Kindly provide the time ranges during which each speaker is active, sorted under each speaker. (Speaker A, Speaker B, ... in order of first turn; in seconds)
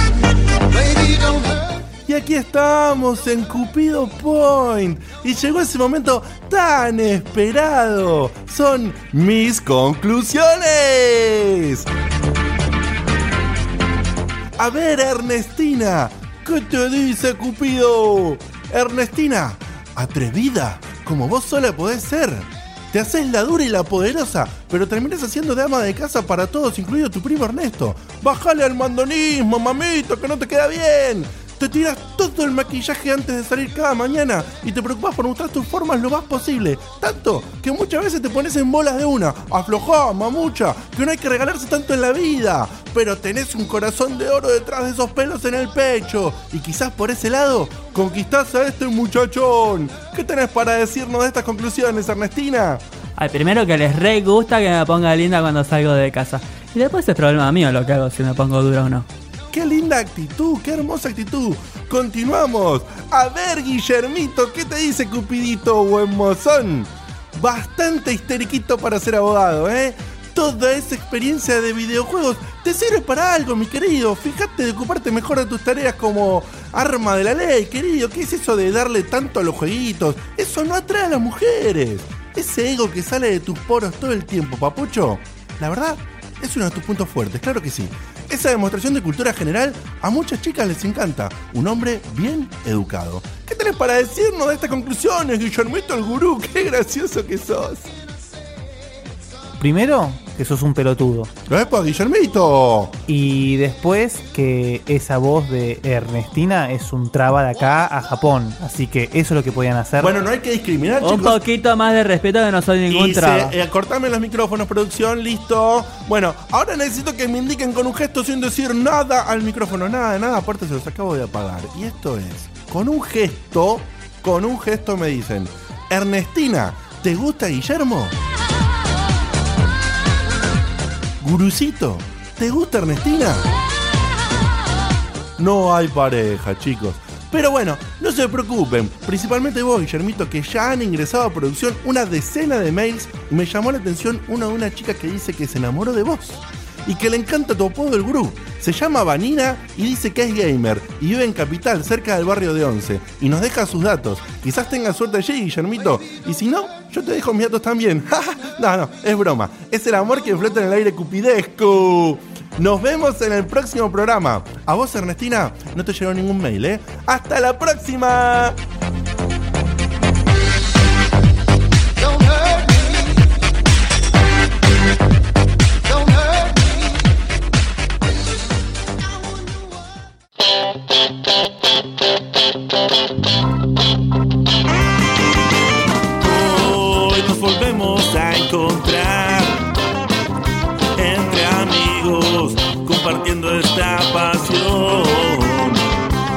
Speaker A: 0.6-1.9, 172.0-173.3, 175.8-177.1
Speaker B: 2.0-11.9, 14.6-52.8, 59.5-97.9, 101.5-103.0, 110.0-111.4, 112.9-128.1, 131.2-133.4, 135.4-168.6
Speaker C: 53.2-59.0, 111.0-113.5
Speaker D: 99.6-101.3, 103.1-110.2
Speaker E: 186.2-189.7, 190.9-195.8